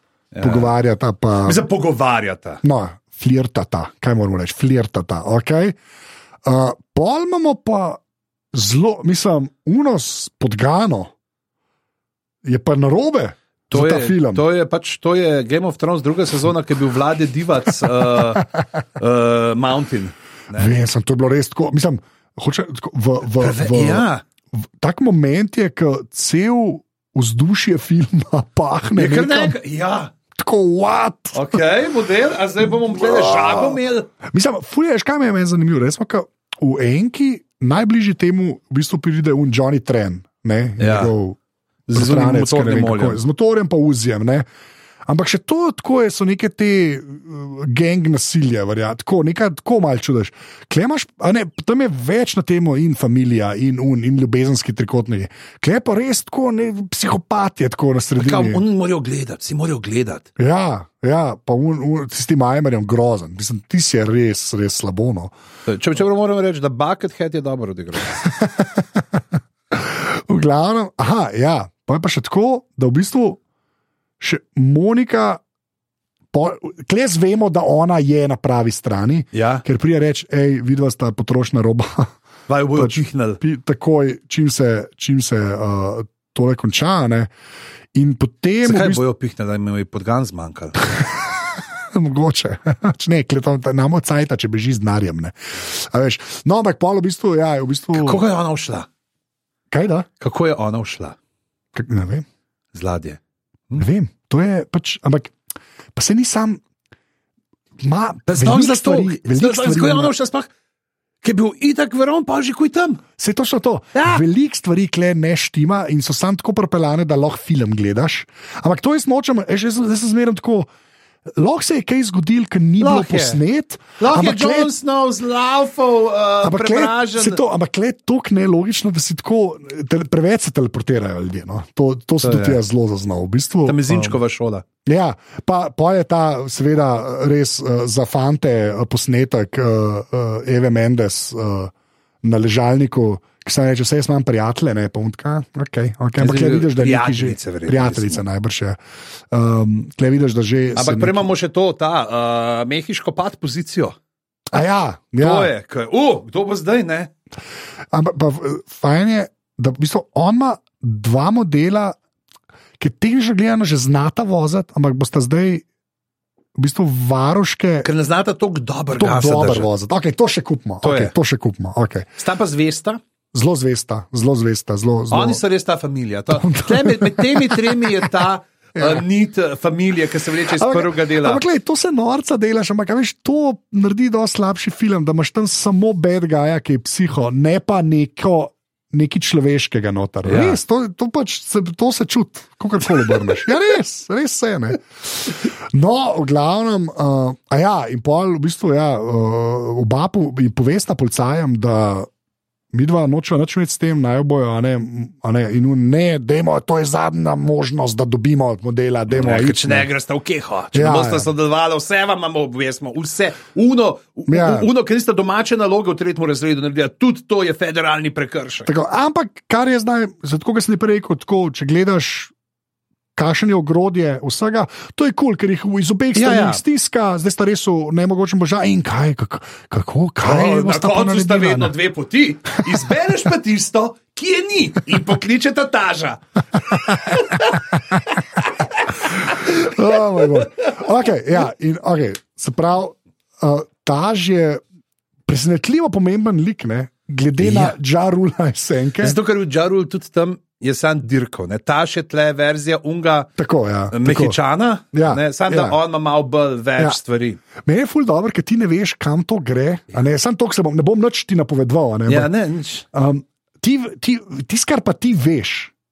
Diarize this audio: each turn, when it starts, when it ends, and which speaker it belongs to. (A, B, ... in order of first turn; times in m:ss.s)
0:00.3-0:00.7 A
0:00.4-0:01.6 B
0:01.4-0:02.6 A
0:02.6-0:05.8 B
0:06.4-0:08.0 B
0:08.5-0:11.1 B
0:12.4-0:14.4 B
0:13.7-0:20.7 A
0:20.5-0:29.6 B
0:23.4-0:24.2 A
0:29.0-0:30.1 A
0:30.4-0:31.6 B
0:31.3-0:34.1 A
0:32.7-0:41.4 B
0:40.8-0:41.1 A
0:41.9-0:43.2 A
0:41.9-0:44.4 B
0:45.0-0:58.6 B
0:58.2-1:00.3 A
1:00.4-1:05.3 B
1:05.6-1:08.2 A
1:08.2-1:13.4 B
1:14.2-1:15.4 B
1:16.3-1:22.1 B
1:19.3-1:19.6 A
1:22.5-1:23.4 A
1:22.8-1:27.3 B
1:27.9-1:29.0 B
1:28.6-1:30.8 A
1:31.9-1:38.2 B
1:37.9-1:38.9 A
1:39.7-1:40.1 B
1:40.2-1:41.2 A
1:41.7-1:42.2 B
1:42.7-1:43.8 A
1:43.8-1:45.3 B
1:46.0-1:46.6 B
1:47.8-1:50.1 B
1:48.3-1:50.5 A
1:51.2-1:53.0 A
1:53.2-2:00.7 B
1:53.9-1:54.2 A
2:01.4-2:04.7 B
2:02.8-2:03.4 A
2:04.0-2:07.4 A
2:06.4-2:14.2 B
2:12.2-2:12.6 A
2:13.6-2:14.6 A
2:14.8-2:21.7 B
2:22.2-2:28.8 B
2:26.2-2:28.2 A
2:29.3-2:31.3 B
2:30.8-2:34.0 A
2:34.5-2:35.5 B
2:35.2-2:37.1 A
2:37.9-2:42.0 B
2:42.8-2:45.6 B
2:46.6-2:47.9 B
2:47.8-2:49.7 A
2:49.0-2:52.1 B
2:50.8-2:51.1 A
2:52.2-2:53.0 A
2:53.3-2:55.4 B
2:55.1-3:01.4 A
2:56.3-2:58.1 B
2:58.7-2:59.0 B
3:00.6-3:22.1 B
3:10.2-3:10.6 A
3:22.7-3:29.9 B
3:29.1-3:38.7 A
3:30.7-3:31.3 B
3:34.3-3:34.7 B
3:38.7-3:42.3 B
3:43.2-3:51.8 B
3:46.1-3:46.6 A
3:50.2-3:57.6 A
3:58.4-3:59.7 A
3:59.1-4:04.6 B
4:05.3-4:09.2 B
4:07.4-4:07.8 A
4:09.0-4:13.3 A
4:13.4-4:14.4 B
4:13.9-4:17.4 A
4:14.9-4:15.8 B
4:17.6-4:22.3 B
4:22.1-4:22.8 A
4:22.9-4:25.7 B